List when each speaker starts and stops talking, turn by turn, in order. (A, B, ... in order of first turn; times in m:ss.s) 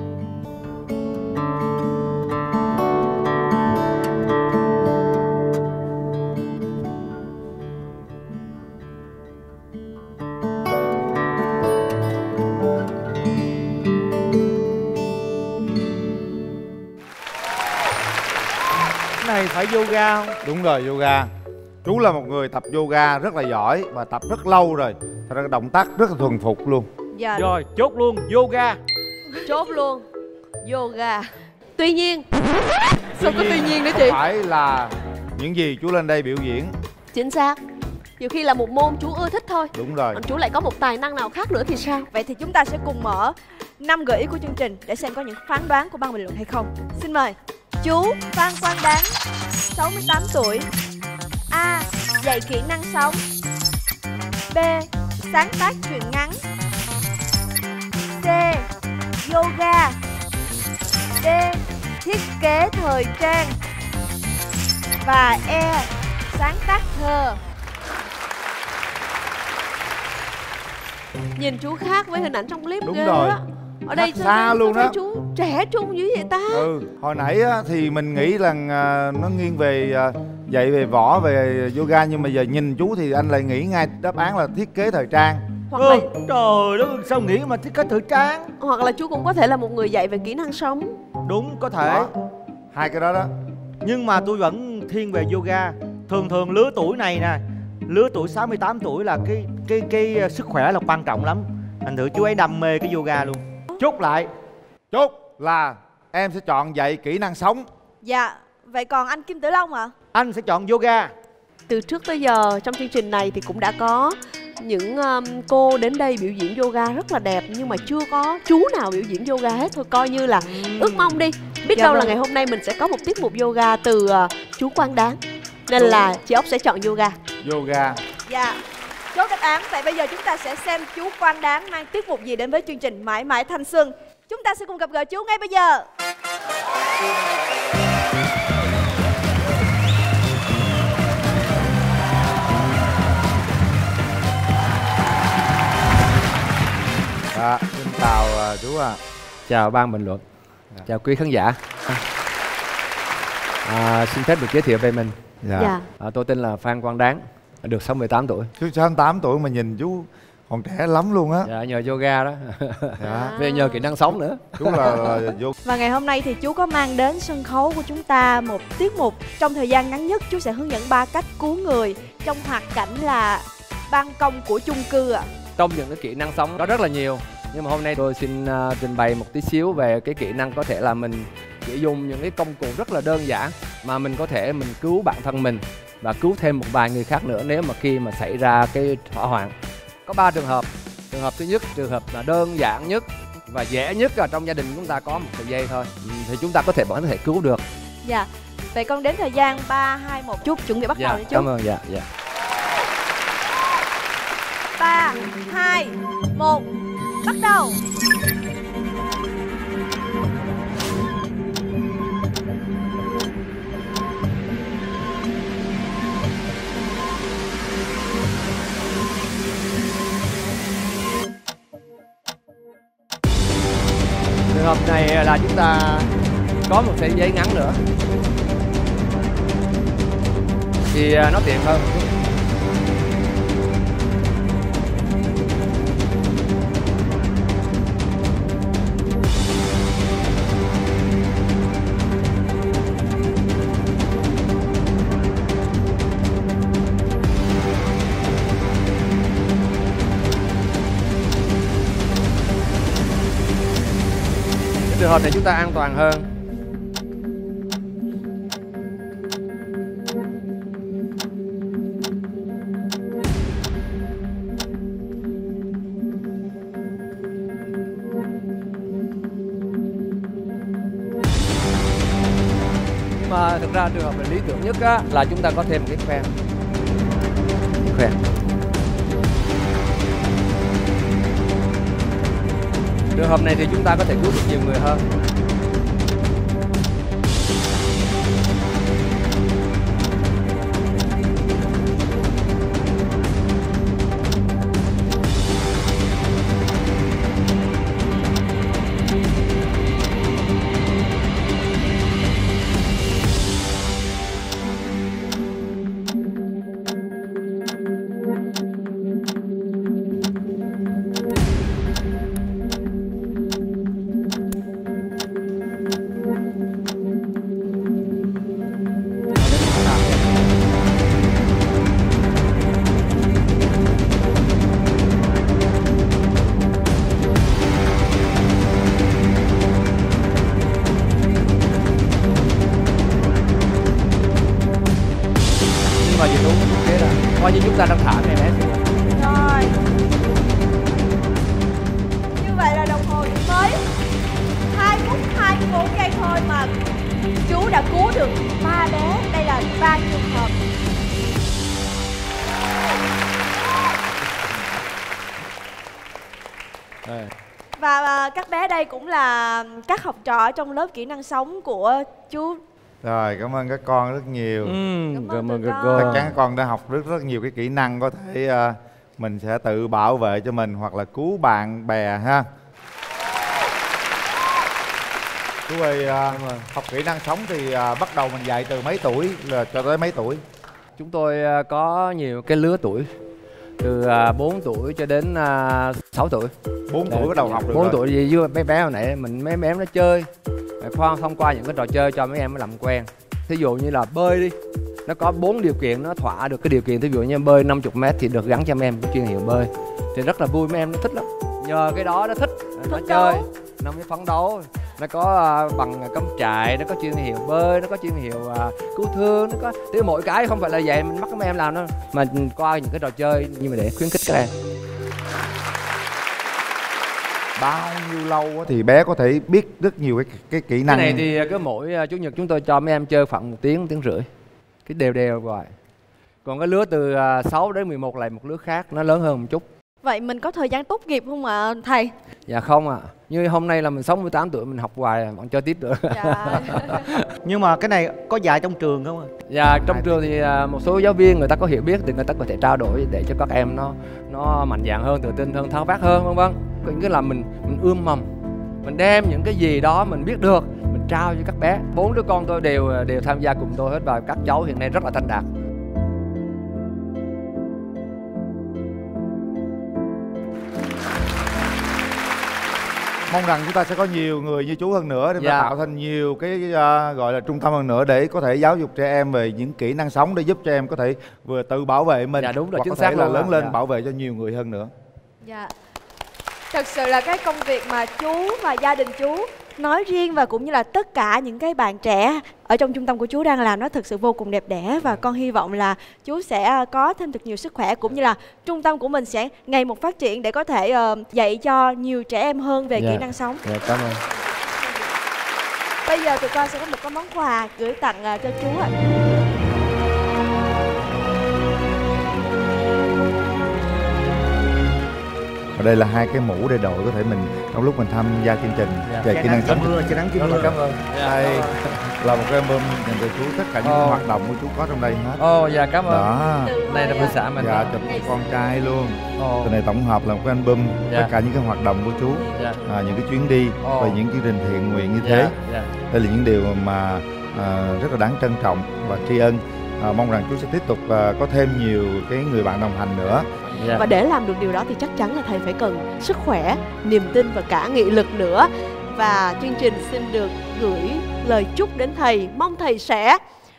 0:19.2-0:20.4 A
0:20.4-0:21.3 B
0:21.8-0:26.9 B
0:27.1-0:27.5 C
0:27.3-0:28.8 A
0:29.4-0:30.0 D
0:30.6-0:32.2 D
0:33.1-0:34.2 D
0:33.2-0:36.7 B
0:37.1-0:37.6 D
0:38.2-0:42.1 D
0:39.7-0:40.2 B
0:42.1-0:49.1 C
0:49.7-0:50.7 C
0:51.5-0:53.2 C
0:54.5-0:56.4 C
0:58.2-0:58.7 C
0:59.2-1:00.0 C
1:01.2-1:03.5 C
1:05.0-1:07.4 C
1:11.3-1:16.7 D
1:12.8-1:15.0 B
1:16.5-1:25.5 B
1:25.7-1:26.1 D
1:25.7-1:28.5 A
1:28.6-1:31.0 D
1:31.2-1:32.1 A
1:31.8-1:32.1 B
1:32.7-1:33.3 B
1:33.8-1:44.3 A
1:44.9-1:47.6 B
1:48.0-1:49.9 C
1:50.1-1:51.1 A
1:51.7-2:07.2 D
2:01.7-2:02.2 C
2:07.4-2:08.0 B
2:08.3-2:08.6 C
2:09.1-2:15.8 C
2:27.3-2:29.0 B
2:29.5-2:30.2 E
2:30.8-2:31.6 E
2:33.6-2:35.2 E
2:35.4-2:35.7 B
2:35.6-2:35.9 D
2:36.0-2:38.5 E
2:38.6-2:41.5 B
2:41.4-2:45.2 E
2:43.0-2:43.4 B
2:43.0-2:43.8 D
2:44.6-2:45.5 B
2:45.6-2:55.3 C
2:55.6-3:09.5 E
3:10.0-3:17.6 E
3:18.0-3:21.5 C
3:20.9-3:22.1 E
3:24.8-3:26.7 C
3:27.2-3:27.8 C
3:44.5-3:46.1 E
3:46.6-3:47.8 E
3:50.9-3:52.1 E
4:14.9-4:16.3 E
4:33.1-4:36.3 E
4:37.8-4:38.2 E
4:43.1-4:45.0 E
5:19.4-5:20.5 E
5:36.0-5:38.9 E
5:39.1-5:39.8 C
5:42.4-5:43.8 C
5:44.7-5:46.7 C
5:47.4-5:50.5 C
5:57.0-5:57.3 E
5:57.8-6:02.6 C
6:03.0-6:04.8 B
6:04.6-6:06.3 E
6:05.1-6:06.3 C
6:05.9-6:12.4 B
6:15.7-6:20.4 B
6:16.3-6:16.7 E
6:21.0-6:23.1 E
6:23.8-6:26.5 E
6:26.9-6:28.0 B
6:27.0-6:30.3 E
6:30.8-6:54.5 E
6:42.8-6:43.4 D
6:57.6-7:01.3 B
7:00.8-7:04.3 E
7:04.8-7:05.7 E
7:06.4-7:09.6 E
7:10.0-7:12.1 C
7:12.5-7:17.2 E
7:16.1-7:17.1 C
7:17.4-7:19.3 A
7:19.5-7:28.3 E
7:19.7-7:20.2 B
7:28.8-7:35.5 E
7:43.3-7:54.9 B
7:45.4-7:45.7 E
7:52.4-7:53.8 E
7:55.4-7:55.7 C
7:56.7-8:13.6 C
8:13.0-8:14.2 E
8:16.0-8:18.9 C
8:25.7-8:31.7 B
8:29.2-8:30.2 A
8:29.8-8:32.1 E
8:32.2-8:35.4 B
8:33.8-8:34.2 E
8:35.4-8:36.3 E
8:36.0-8:36.8 B
8:36.6-8:37.4 C
8:36.8-8:38.0 E
8:37.5-8:45.5 B
8:38.0-8:38.8 C
8:39.4-8:39.8 E
8:41.0-8:41.3 E
8:42.5-8:42.8 E
8:42.5-8:42.9 C
8:43.8-8:44.2 E
8:45.2-8:45.9 E
8:46.1-8:53.5 B
8:53.8-8:54.1 E
8:53.9-9:03.4 D